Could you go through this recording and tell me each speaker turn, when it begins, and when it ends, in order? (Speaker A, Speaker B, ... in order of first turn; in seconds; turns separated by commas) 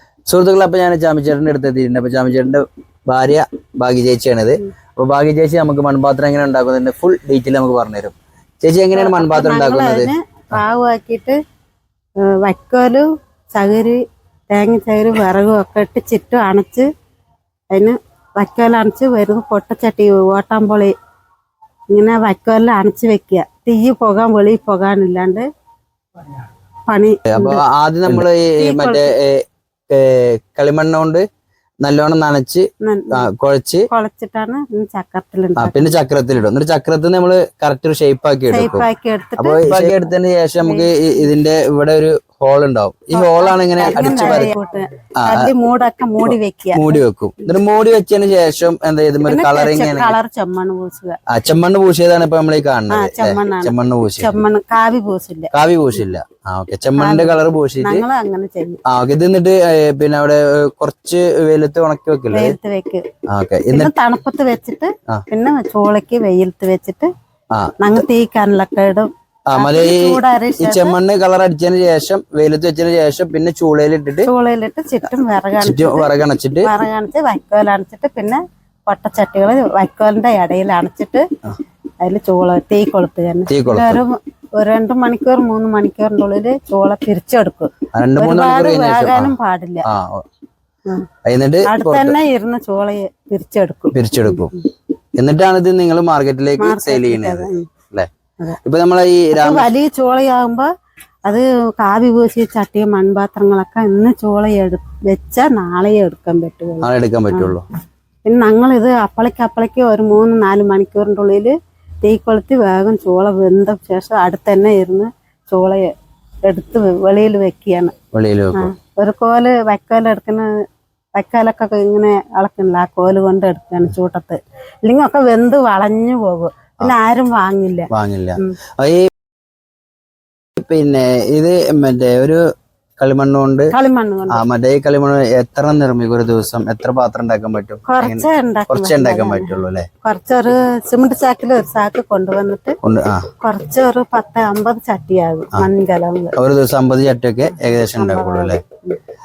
Speaker A: 0.3-10.6, Speaker B: 8.9-11.4, Speaker B: 12.2-14.0, Speaker B: 14.5-16.9, Speaker B: 17.7-20.9, Speaker B: 21.9-25.4, Speaker B: 26.9-29.1, Speaker A: 27.3-31.2, Speaker A: 31.8-33.9, Speaker B: 32.8-33.2, Speaker B: 33.9-35.9, Speaker A: 35.6-38.9, Speaker B: 38.5-40.1, Speaker A: 39.4-44.5, Speaker B: 40.6-40.9, Speaker B: 43.1-47.0, Speaker A: 45.2-45.5, Speaker A: 46.2-50.1, Speaker B: 49.2-51.2, Speaker A: 51.3-54.4, Speaker B: 52.9-55.5, Speaker A: 55.5-58.0, Speaker B: 57.0-58.8, Speaker A: 58.9-62.6, Speaker B: 62.3-63.0, Speaker A: 63.3-63.9, Speaker B: 63.7-67.1, Speaker B: 67.8-71.0, Speaker A: 69.5-74.3, Speaker B: 74.2-76.1, Speaker A: 75.6-76.7, Speaker B: 76.6-81.2, Speaker B: 82.0-89.8, Speaker A: 83.5-84.0, Speaker A: 87.9-89.3, Speaker A: 89.8-90.2, Speaker A: 91.2-92.2, Speaker B: 91.6-94.6, Speaker A: 93.9-94.5, Speaker A: 95.2-98.1, Speaker B: 96.6-97.7, Speaker A: 98.6-99.7, Speaker B: 99.3-100.7, Speaker B: 101.2-107.5, Speaker A: 106.8-107.7, Speaker B: 108.2-115.9, Speaker B: 116.5-117.9, Speaker A: 118.1-118.7, Speaker B: 118.5-120.5, Speaker B: 121.2-128.6, Speaker A: 127.9-129.1, Speaker A: 130.6-132.4, Speaker A: 133.0-133.7, Speaker B: 133.7-134.4, Speaker A: 134.3-139.9, Speaker B: 137.8-142.8, Speaker A: 142.8-143.3, Speaker B: 143.4-146.3, Speaker A: 146.3-148.6, Speaker B: 147.5-149.0